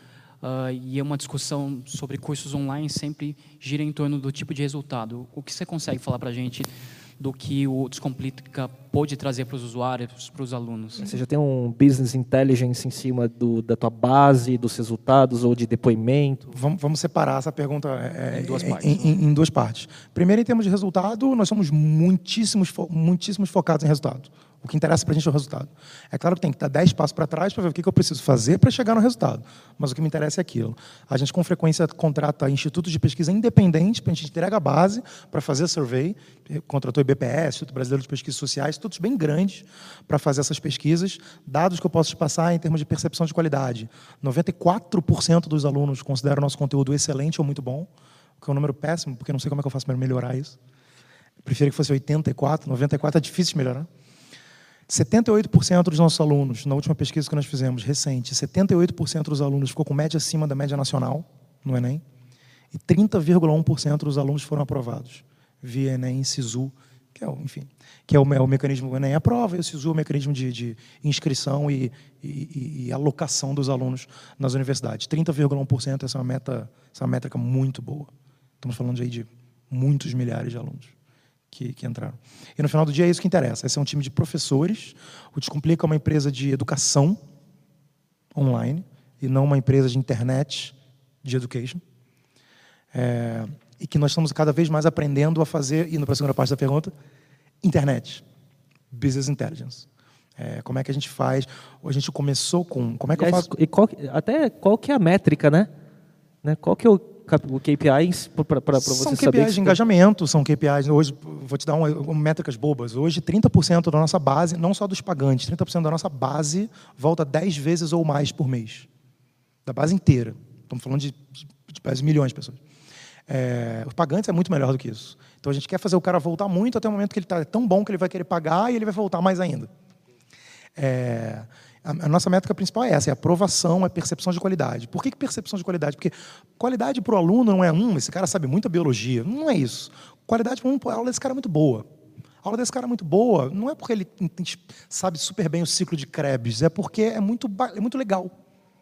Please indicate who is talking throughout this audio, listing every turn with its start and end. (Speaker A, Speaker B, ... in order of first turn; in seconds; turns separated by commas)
Speaker A: 0.4-11.1, Speaker B: 11.0-16.5, Speaker C: 16.5-47.9, Speaker A: 18.3-19.2, Speaker C: 48.4-50.6, Speaker C: 51.4-53.9, Speaker C: 54.9-62.0, Speaker C: 62.7-78.1, Speaker C: 78.6-80.9, Speaker C: 81.5-87.2, Speaker C: 88.3-91.8, Speaker C: 92.9-96.9, Speaker C: 97.6-98.2, Speaker C: 98.9-103.5, Speaker B: 103.2-105.7, Speaker B: 106.4-109.8, Speaker C: 108.8-118.9, Speaker C: 119.6-122.6, Speaker C: 123.3-129.7, Speaker C: 130.8-141.8, Speaker C: 142.4-148.3